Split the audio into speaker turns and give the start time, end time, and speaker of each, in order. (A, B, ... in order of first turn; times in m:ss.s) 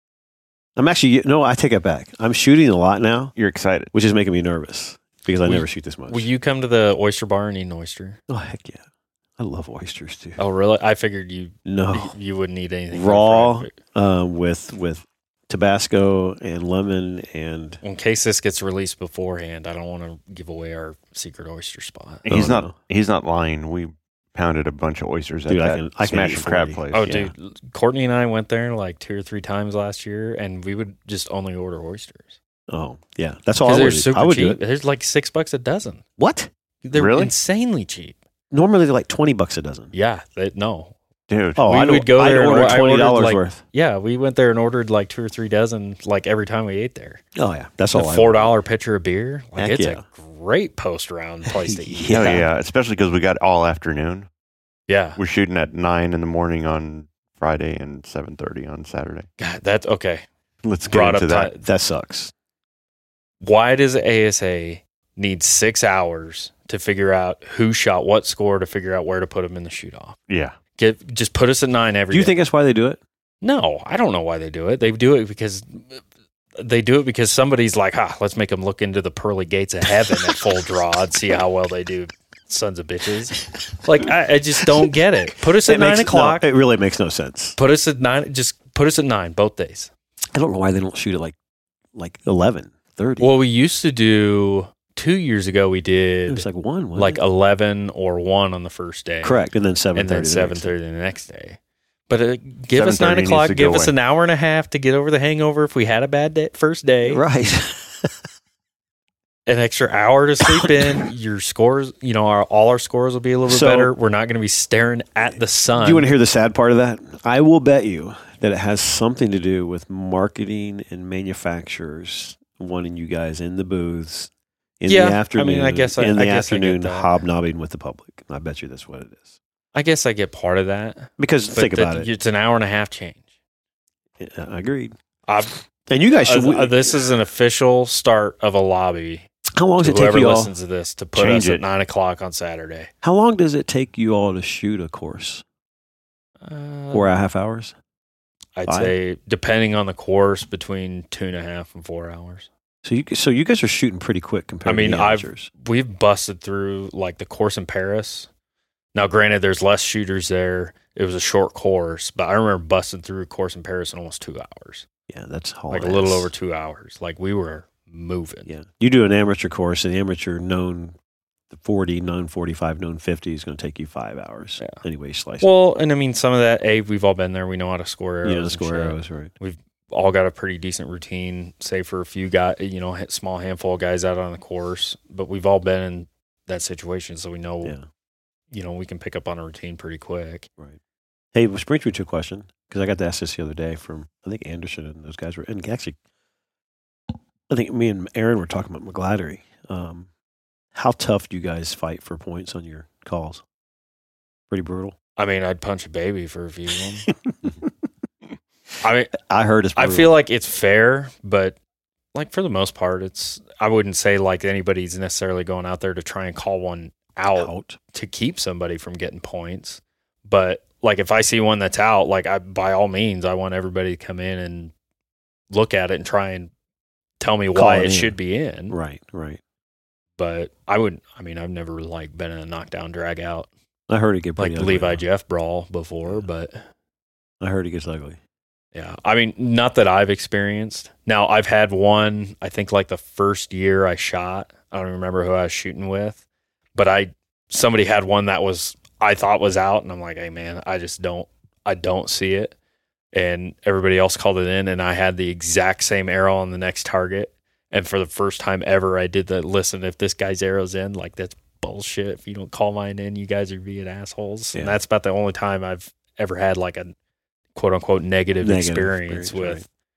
0:00.8-0:03.4 A
0:03.4-0:03.9 B
0:03.9-0:06.3 A
0:05.4-0:08.2 C
0:08.3-0:08.8 A
0:09.4-0:10.4 A
0:10.4-0:13.8 C
0:11.6-0:12.2 A
0:12.9-0:17.8 A
0:17.8-0:22.2 C
0:22.3-0:27.3 B
0:22.3-0:22.7 A
0:25.5-0:27.3 A
0:26.9-0:32.4 C
0:32.7-0:34.6 A
0:33.6-0:36.0 C
0:36.2-0:36.5 A
0:36.8-0:38.2 C
0:36.9-0:37.3 B
0:38.5-0:39.9 A
0:39.9-0:40.9 C
0:41.3-0:41.6 B
0:41.6-0:43.6 A
0:41.7-0:47.2 C
0:47.4-0:48.5 A
0:47.9-0:52.3 C
0:49.6-0:50.0 A
0:51.5-0:52.5 A
0:52.1-0:54.3 B
0:54.9-0:55.2 C
0:55.2-0:59.3 B
0:59.4-1:00.2 C
1:00.6-1:01.5 B
1:00.9-1:01.6 C
1:01.6-1:02.3 A
1:03.4-1:10.2 C
1:10.3-1:10.6 B
1:10.8-1:12.4 C
1:12.1-1:13.0 A
1:13.4-1:16.0 C
1:16.6-1:26.4 C
1:25.7-1:27.6 A
1:27.6-1:29.9 C
1:30.3-1:31.4 A
1:32.0-1:33.3 A
1:33.2-1:39.4 C
1:36.3-1:37.2 A
1:39.2-1:40.7 A
1:40.0-1:41.6 C
1:42.1-1:47.2 C
1:42.8-1:43.9 B
1:47.0-1:48.1 A
1:49.5-1:56.1 C
1:53.5-1:53.9 A
1:55.3-2:09.3 A
2:04.9-2:07.2 C
2:09.7-2:13.2 C
2:11.2-2:12.1 A
2:14.2-2:14.9 A
2:15.3-2:15.6 C
2:15.9-2:17.0 A
2:16.1-2:19.3 C
2:19.5-2:20.5 A
2:19.8-2:22.9 C
2:21.2-2:21.6 B
2:23.0-2:25.4 A
2:26.4-2:27.1 C
2:26.9-2:27.8 A
2:28.6-2:32.5 C
2:28.7-2:29.0 A
2:32.8-2:35.5 A
2:34.7-2:38.3 C
2:38.9-2:44.9 C
2:45.1-2:46.3 A
2:45.7-2:48.5 C
2:48.5-2:51.0 A
2:51.5-2:55.5 A
2:55.4-3:07.8 C
2:58.2-2:59.3 A
3:08.5-3:10.5 C
3:11.3-3:16.0 A
3:17.5-3:20.1 A
3:20.7-3:23.4 A
3:24.5-3:25.0 A
3:25.2-3:27.1 C
3:27.1-3:27.4 A
3:28.8-3:29.1 C
3:29.2-3:30.1 A
3:29.8-3:31.6 C
3:32.1-3:44.7 C
3:37.4-3:37.8 A
3:45.5-3:46.5 C
3:47.2-3:48.8 C
3:47.5-3:48.2 A
3:48.7-3:49.4 A
3:50.2-3:53.5 C
3:53.9-3:55.0 A
3:54.4-3:56.6 C
3:57.4-3:58.2 A
3:58.7-4:06.2 C
4:06.8-4:12.5 C
4:13.1-4:26.9 C
4:27.6-4:29.6 C
4:28.4-4:29.6 A